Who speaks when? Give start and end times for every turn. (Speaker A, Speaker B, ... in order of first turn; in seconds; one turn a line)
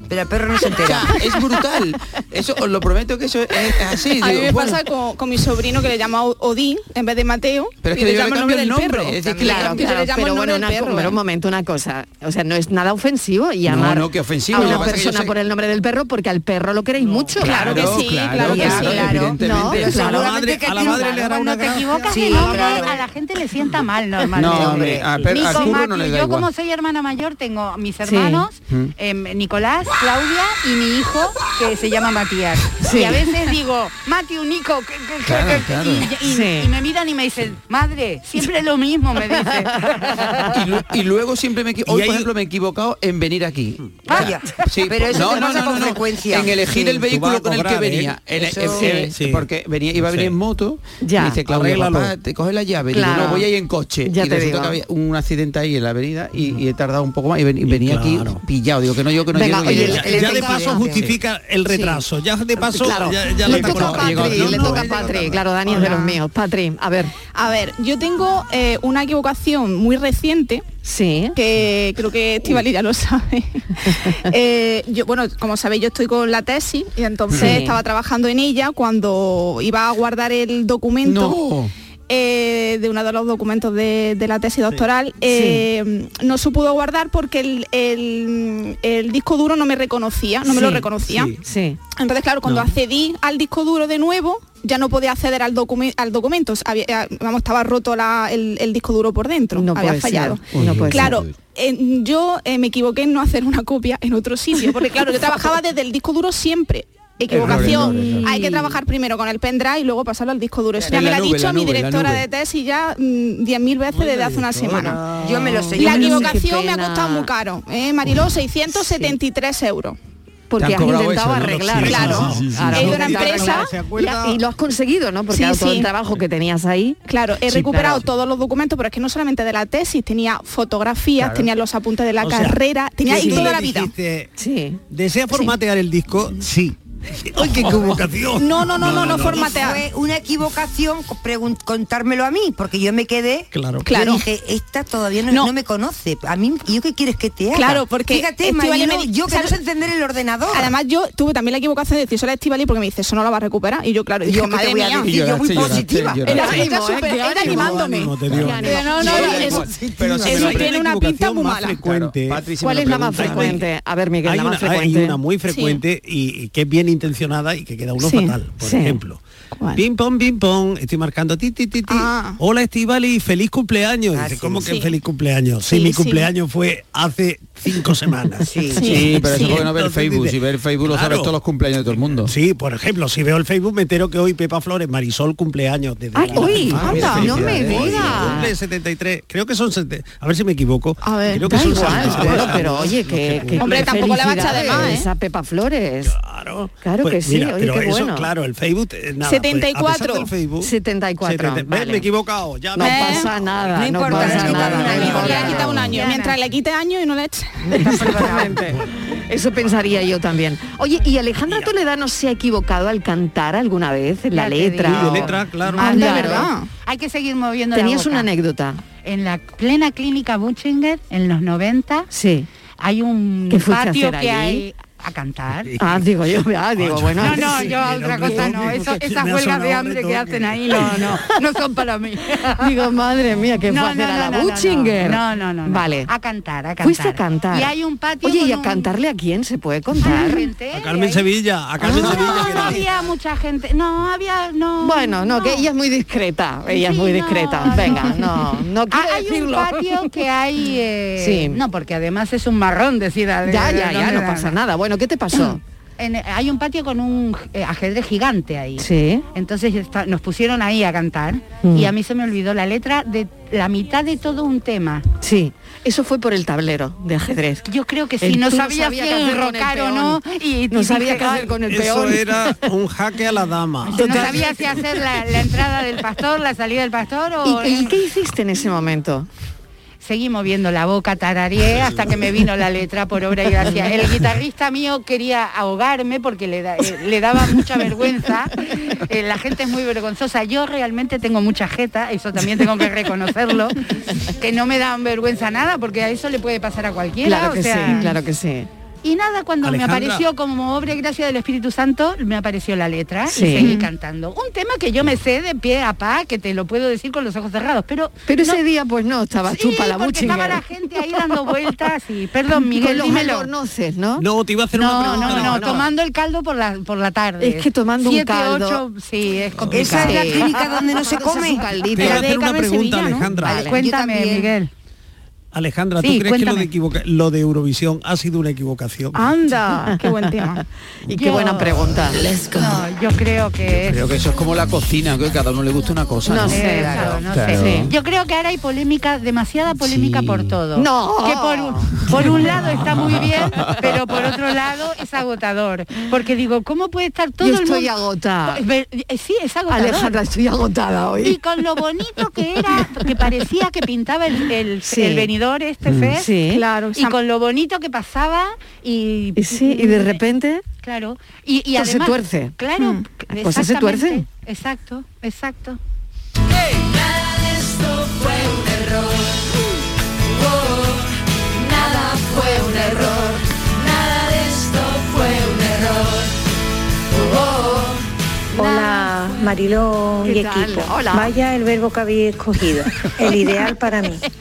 Speaker A: 0.1-1.2
Speaker B: 0.7-4.8
Speaker C: 4.2-11.2
Speaker B: 7.8-9.8
Speaker A: 9.2-9.6
Speaker D: 9.4-17.8
Speaker B: 13.7-15.3
Speaker E: 17.0-17.4
Speaker B: 17.4-20.2
Speaker C: 17.4-19.2
Speaker A: 18.4-21.3
Speaker D: 18.4-20.3
Speaker E: 19.9-22.9
Speaker F: 20.8-40.3
Speaker A: 22.1-23.0
Speaker B: 24.4-26.5
Speaker A: 24.6-25.0
Speaker D: 28.0-28.4
Speaker D: 32.8-33.3
Speaker B: 35.2-36.1
Speaker D: 36.2-36.7
Speaker B: 40.5-60.3
Speaker E: 41.8-42.3
Speaker F: 44.1-44.5
Speaker A: 44.1-46.7
Speaker E: 47.0-48.2
Speaker A: 48.4-48.9
Speaker D: 48.7-49.1
Speaker E: 49.1-50.4
Speaker D: 51.0-51.4
Speaker E: 51.4-52.1
Speaker D: 52.9-53.5
Speaker D: 54.0-54.8
Speaker E: 56.4-56.6
Speaker E: 57.6-58.4
Speaker D: 59.3-60.9
Speaker A: 59.6-61.2
Speaker E: 59.6-66.0
Speaker D: 61.7-62.0
Speaker D: 62.6-67.1
Speaker B: 63.4-65.1
Speaker C: 65.8-66.2
Speaker C: 67.3-70.6
Speaker D: 70.8-71.3
Speaker C: 71.3-81.4
Speaker D: 73.9-74.2
Speaker B: 77.3-77.6
Speaker D: 77.3-77.8
Speaker B: 81.0-81.7
Speaker C: 82.1-91.3
Speaker D: 85.3-85.7
Speaker D: 90.4-90.9
Speaker E: 91.0-91.3
Speaker D: 91.4-91.8
Speaker C: 92.0-115.0
Speaker E: 92.4-92.7
Speaker D: 99.5-101.2
Speaker B: 100.5-101.3
Speaker E: 100.5-100.9
Speaker E: 107.3-108.2
Speaker B: 107.4-108.2
Speaker D: 108.2-108.7
Speaker B: 110.8-112.2
Speaker E: 113.9-115.9
Speaker A: 115.2-116.4
Speaker D: 115.7-117.3
Speaker C: 115.8-120.0
Speaker D: 118.7-119.2
Speaker D: 120.5-127.0
Speaker B: 120.6-122.6
Speaker E: 121.3-124.4
Speaker C: 121.8-123.7
Speaker C: 125.3-125.9
Speaker C: 127.1-133.9
Speaker E: 127.5-128.0
Speaker E: 131.2-131.5
Speaker E: 132.2-134.3
Speaker D: 133.1-133.5
Speaker D: 134.4-134.8
Speaker E: 134.9-139.5
Speaker C: 137.5-139.8
Speaker A: 139.0-150.7
Speaker E: 143.5-143.9
Speaker C: 143.8-144.2
Speaker C: 147.5-149.6
Speaker C: 150.5-155.1
Speaker A: 154.2-156.4
Speaker B: 155.0-156.6
Speaker C: 156.3-159.6
Speaker D: 156.3-159.6
Speaker E: 157.3-162.4
Speaker B: 158.3-160.7
Speaker C: 160.2-161.8
Speaker B: 161.8-163.6
Speaker D: 162.6-165.2
Speaker E: 163.1-163.6
Speaker E: 164.2-169.2
Speaker C: 165.5-165.8
Speaker C: 168.0-168.3
Speaker D: 168.6-169.0
Speaker C: 169.6-169.8
Speaker E: 169.8-181.3
Speaker C: 171.9-172.4
Speaker A: 174.1-174.8
Speaker C: 174.6-174.9
Speaker C: 175.7-176.3
Speaker D: 178.5-178.8
Speaker C: 178.8-179.6
Speaker B: 178.8-182.3
Speaker E: 181.9-195.0
Speaker D: 186.1-188.5
Speaker B: 186.3-188.4
Speaker C: 186.9-187.2
Speaker C: 191.0-192.0
Speaker D: 191.4-196.2
Speaker C: 193.6-195.1
Speaker E: 196.0-205.9
Speaker D: 196.8-198.3
Speaker C: 199.2-200.3
Speaker D: 200.6-202.1
Speaker D: 202.7-205.7
Speaker C: 202.8-203.3
Speaker A: 203.7-205.8
Speaker C: 204.8-208.2
Speaker F: 204.9-206.3
Speaker D: 207.7-216.5
Speaker F: 214.3-218.3
Speaker E: 214.8-216.3
Speaker C: 215.8-216.7
Speaker D: 217.7-218.8
Speaker F: 219.0-222.1
Speaker D: 222.1-222.5
Speaker F: 222.8-225.7
Speaker D: 223.5-224.6
Speaker E: 225.6-231.2
Speaker D: 225.8-227.7
Speaker F: 227.2-232.7
Speaker D: 232.6-236.1
Speaker F: 233.7-238.9
Speaker D: 236.8-237.7
Speaker D: 238.2-240.5
Speaker F: 240.0-241.2
Speaker E: 240.7-242.8
Speaker D: 241.8-242.7
Speaker F: 241.8-245.7
Speaker D: 244.8-250.1
Speaker F: 246.7-248.3
Speaker F: 248.9-254.6
Speaker D: 251.2-251.6
Speaker D: 253.4-255.6
Speaker F: 256.0-265.0
Speaker D: 258.8-259.2
Speaker D: 261.6-261.9
Speaker D: 265.2-267.6
Speaker F: 267.7-271.5
Speaker D: 268.2-272.5
Speaker E: 271.6-274.8
Speaker F: 273.8-277.9
Speaker D: 273.9-274.5
Speaker D: 277.4-279.3
Speaker F: 280.0-293.8
Speaker F: 294.4-298.1
Speaker D: 297.2-298.7
Speaker F: 299.0-308.6
Speaker E: 299.6-300.2
Speaker D: 303.3-303.8
Speaker D: 308.3-310.6
Speaker F: 309.5-313.5
Speaker D: 312.5-314.3
Speaker E: 314.2-315.9
Speaker F: 314.7-324.7
Speaker D: 315.0-315.8
Speaker D: 317.4-318.8
Speaker E: 319.6-319.9
Speaker A: 319.7-322.1
Speaker D: 319.9-322.3
Speaker E: 321.9-323.7
Speaker D: 323.3-323.8
Speaker A: 323.4-324.5
Speaker E: 325.5-329.2
Speaker F: 326.0-326.7
Speaker C: 329.1-330.6
Speaker D: 330.6-332.2
Speaker F: 331.1-332.0
Speaker G: 332.2-332.8
Speaker F: 332.5-334.0
Speaker B: 333.8-337.9
Speaker D: 336.3-337.9
Speaker F: 336.5-347.9
Speaker A: 336.6-337.2
Speaker B: 339.8-340.6
Speaker D: 340.8-342.3
Speaker B: 342.9-343.7
Speaker D: 347.4-348.6
Speaker F: 348.5-350.2
Speaker D: 349.7-351.4
Speaker F: 351.2-356.3
Speaker D: 354.8-355.3
Speaker D: 356.1-356.6
Speaker C: 356.4-357.1
Speaker F: 356.9-360.2
Speaker D: 359.4-360.6
Speaker F: 360.8-365.8
Speaker D: 361.8-362.6
Speaker D: 363.3-364.2
Speaker G: 366.8-369.3
Speaker G: 370.5-370.9
Speaker D: 371.8-373.3
Speaker G: 372.1-372.6
Speaker G: 373.8-376.2
Speaker G: 377.5-377.8
Speaker H: 378.6-384.2
Speaker D: 378.6-379.1
Speaker D: 380.2-381.3